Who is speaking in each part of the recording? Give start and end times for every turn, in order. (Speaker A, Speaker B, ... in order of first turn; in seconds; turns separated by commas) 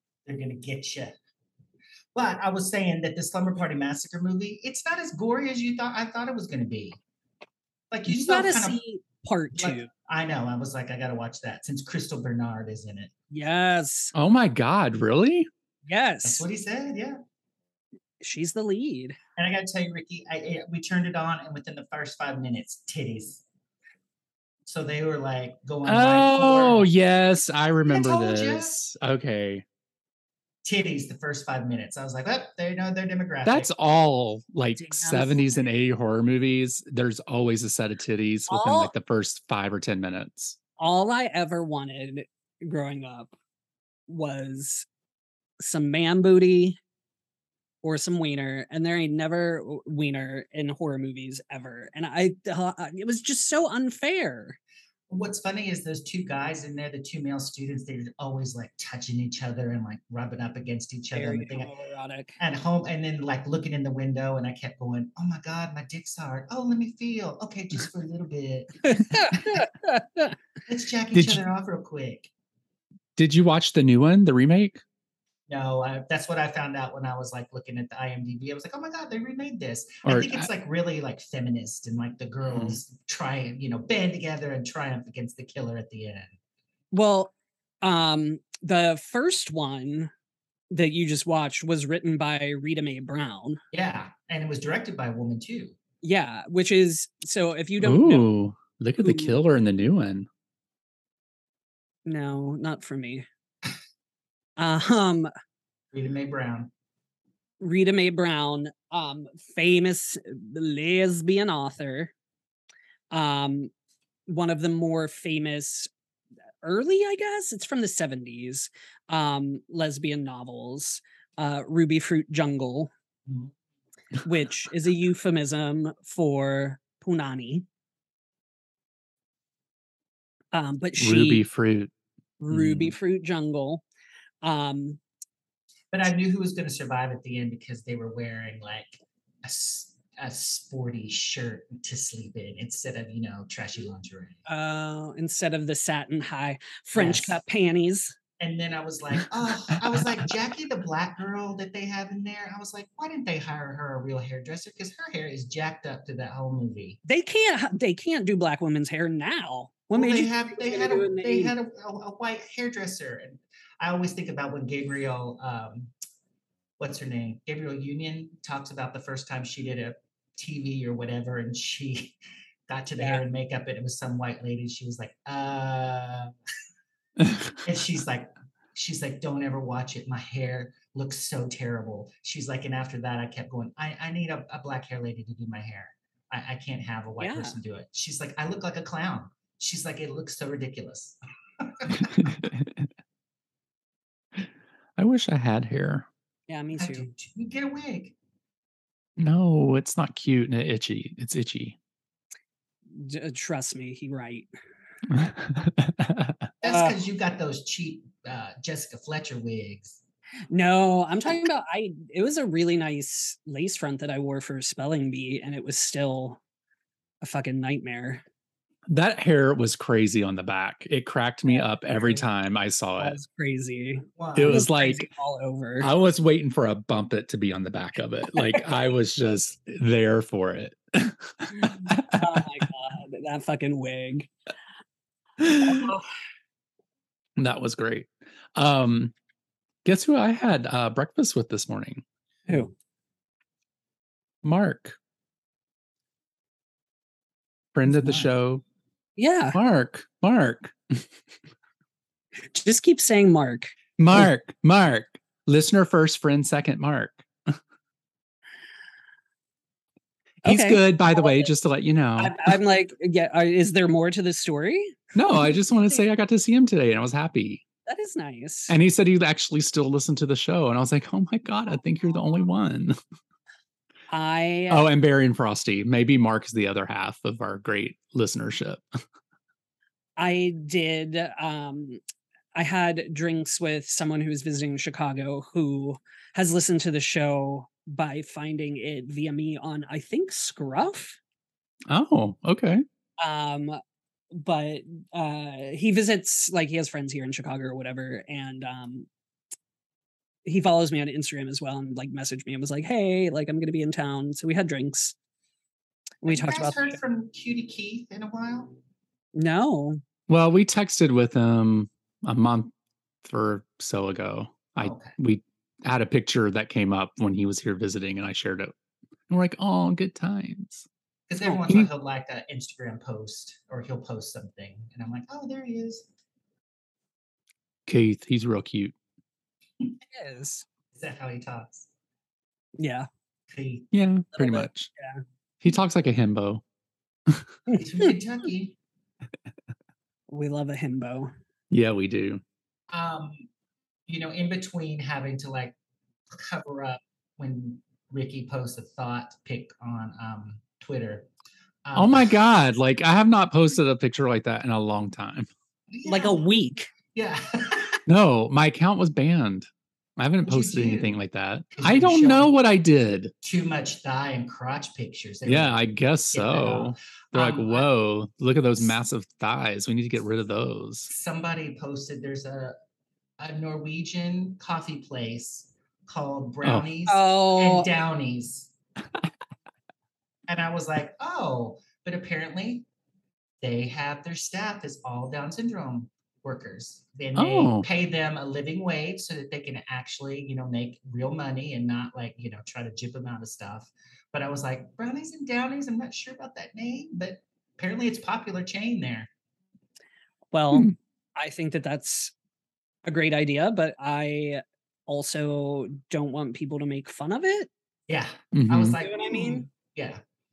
Speaker A: 0.2-1.1, Speaker A: 2.1-7.0, Speaker A: 7.9-8.8, Speaker B: 8.1-9.9, Speaker A: 9.6-13.1, Speaker B: 13.3-14.1, Speaker C: 14.1-15.5, Speaker B: 15.9-16.4, Speaker A: 16.2-17.2, Speaker B: 18.2-19.2, Speaker A: 19.4-23.4, Speaker A: 24.6-26.9, Speaker C: 25.9-29.6, Speaker A: 27.8-28.8, Speaker A: 30.6-33.7, Speaker C: 33.5-40.6, Speaker B: 34.8-35.5, Speaker B: 38.5-38.9, Speaker B: 40.8-43.3, Speaker B: 44.1-44.9, Speaker B: 45.6-46.8, Speaker B: 47.8-54.6, Speaker A: 55.1-61.7, Speaker B: 61.1-62.4, Speaker A: 62.4-68.8, Speaker B: 68.9-70.3, Speaker A: 69.3-69.6, Speaker A: 70.7-72.3, Speaker C: 71.1-71.4, Speaker C: 73.2-74.8, Speaker A: 75.5-86.3, Speaker C: 80.0-80.5, Speaker C: 82.5-82.8, Speaker B: 86.9-90.1, Speaker B: 90.7-93.6, Speaker A: 93.7-95.8, Speaker B: 96.0-98.3, Speaker C: 97.8-100.3, Speaker B: 99.0-99.3, Speaker B: 102.0-103.2, Speaker B: 104.6-105.3, Speaker A: 105.9-106.7, Speaker B: 107.6-112.1, Speaker B: 113.1-113.7, Speaker B: 114.3-115.9, Speaker B: 116.6-122.9, Speaker B: 124.2-127.7, Speaker B: 130.5-131.4, Speaker C: 131.0-131.9, Speaker B: 132.4-133.8, Speaker C: 132.5-132.9, Speaker B: 134.4-135.0, Speaker A: 135.9-144.4, Speaker B: 144.4-148.1, Speaker A: 146.9-147.4, Speaker A: 148.4-157.0, Speaker B: 157.0-161.5, Speaker A: 159.9-165.9, Speaker A: 166.8-176.3, Speaker B: 173.0-173.2, Speaker C: 177.3-177.5, Speaker A: 177.6-192.3, Speaker B: 187.2-187.6, Speaker C: 191.9-192.9, Speaker C: 194.4-196.1, Speaker B: 196.5-197.1, Speaker A: 196.7-198.2, Speaker C: 199.2-201.8, Speaker B: 202.9-204.5, Speaker C: 205.1-206.4, Speaker A: 206.6-210.0, Speaker B: 206.6-207.0, Speaker B: 210.5-216.4, Speaker B: 217.2-218.2, Speaker C: 218.9-223.2, Speaker B: 221.4-222.3, Speaker B: 223.0-225.9, Speaker A: 224.2-224.7, Speaker C: 224.3-225.1, Speaker C: 225.8-232.2, Speaker B: 231.6-234.3, Speaker C: 235.4-235.9, Speaker B: 235.6-236.0, Speaker C: 237.4-239.1, Speaker C: 239.8-242.0, Speaker C: 244.4-244.9, Speaker C: 247.7-248.6, Speaker A: 248.0-248.2, Speaker B: 249.2-249.6, Speaker C: 249.5-251.1, Speaker B: 252.5-254.2, Speaker C: 254.0-257.6, Speaker B: 260.4-261.5, Speaker C: 260.4-262.5, Speaker B: 262.2-265.5, Speaker C: 265.1-267.6, Speaker B: 267.9-268.7, Speaker C: 268.7-272.9, Speaker B: 274.1-274.9, Speaker C: 274.7-278.8, Speaker B: 280.2-282.0, Speaker B: 282.5-291.2, Speaker C: 291.9-292.8, Speaker B: 293.2-293.8, Speaker B: 294.3-299.1, Speaker B: 300.4-305.1, Speaker B: 306.2-307.0, Speaker A: 306.2-308.8, Speaker B: 309.3-310.0, Speaker C: 310.3-312.7, Speaker C: 313.2-318.7, Speaker A: 314.8-315.1, Speaker C: 319.3-320.9, Speaker A: 321.3-326.1, Speaker C: 327.9-328.9, Speaker B: 330.1-330.6, Speaker A: 330.9-331.9, Speaker B: 332.8-333.1, Speaker A: 333.5-333.9, Speaker C: 333.9-334.9, Speaker B: 334.3-335.2, Speaker C: 335.6-336.6, Speaker B: 337.7-338.1, Speaker A: 337.7-338.8, Speaker B: 340.3-341.3, Speaker C: 341.7-342.4, Speaker A: 342.9-343.5, Speaker A: 344.1-345.8, Speaker A: 346.3-351.3, Speaker A: 351.8-352.4, Speaker C: 351.9-355.5, Speaker A: 355.9-356.4, Speaker B: 356.0-356.9, Speaker A: 357.1-358.0, Speaker C: 358.1-363.3, Speaker A: 360.4-361.1, Speaker A: 361.8-362.6, Speaker A: 363.4-365.8, Speaker C: 365.4-371.1, Speaker A: 366.3-367.9, Speaker A: 371.1-372.8, Speaker A: 373.4-378.7, Speaker B: 377.1-377.9, Speaker A: 380.5-382.9, Speaker A: 383.6-399.3, Speaker C: 387.3-387.9, Speaker B: 400.5-402.3, Speaker B: 403.0-407.7, Speaker A: 408.1-410.2, Speaker C: 408.5-409.0, Speaker B: 409.0-409.6